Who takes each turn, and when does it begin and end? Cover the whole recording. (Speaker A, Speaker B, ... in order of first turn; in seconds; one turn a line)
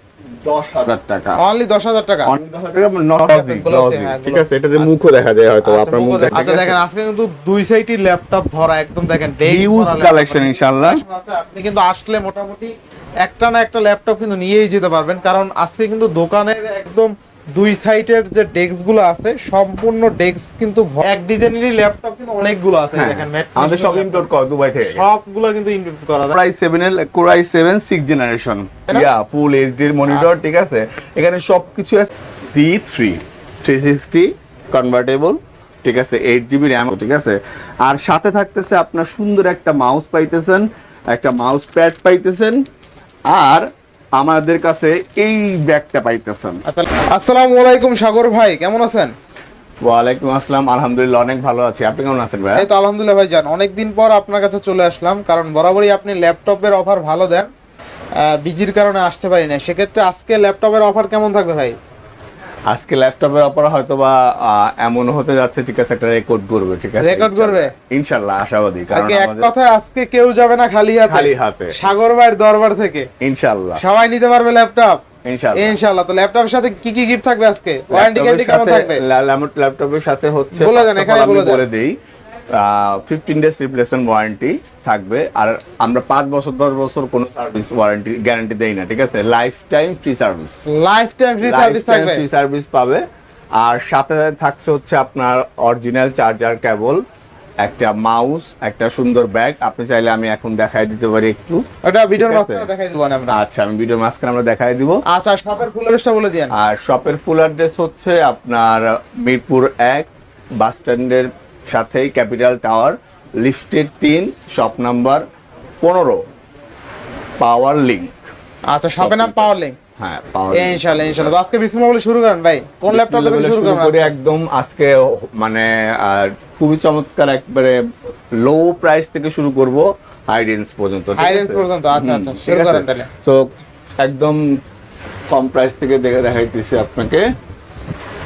Speaker A: 0.4-1.4
Speaker B: 1.4-2.3
Speaker A: 2.2-6.8
Speaker B: 3.3-5.0
Speaker B: 5.6-24.3
Speaker A: 9.4-11.0
Speaker A: 22.9-25.0
Speaker B: 24.8-26.4
Speaker A: 26.3-42.6
Speaker A: 43.3-46.6
Speaker B: 46.6-49.1
Speaker A: 49.8-52.7
Speaker B: 52.5-57.5
Speaker B: 58.1-61.8
Speaker A: 62.7-69.5
Speaker B: 67.0-67.7
Speaker B: 68.9-73.1
Speaker A: 71.1-71.8
Speaker A: 73.2-73.8
Speaker B: 73.8-75.0
Speaker A: 75.2-75.8
Speaker B: 75.5-79.0
Speaker A: 77.9-82.0
Speaker B: 80.5-81.6
Speaker A: 82.5-90.6
Speaker B: 90.7-92.2
Speaker A: 91.4-93.0
Speaker A: 93.5-97.0
Speaker A: 97.6-101.6
Speaker B: 101.8-103.4
Speaker A: 102.2-102.7
Speaker A: 103.3-105.0
Speaker B: 105.0-106.5
Speaker A: 106.5-115.2
Speaker A: 115.8-116.3
Speaker A: 117.4-118.2
Speaker B: 118.7-119.8
Speaker A: 119.0-121.3
Speaker B: 120.5-124.1
Speaker A: 122.9-133.5
Speaker B: 131.2-133.1
Speaker A: 134.0-134.6
Speaker A: 135.3-137.3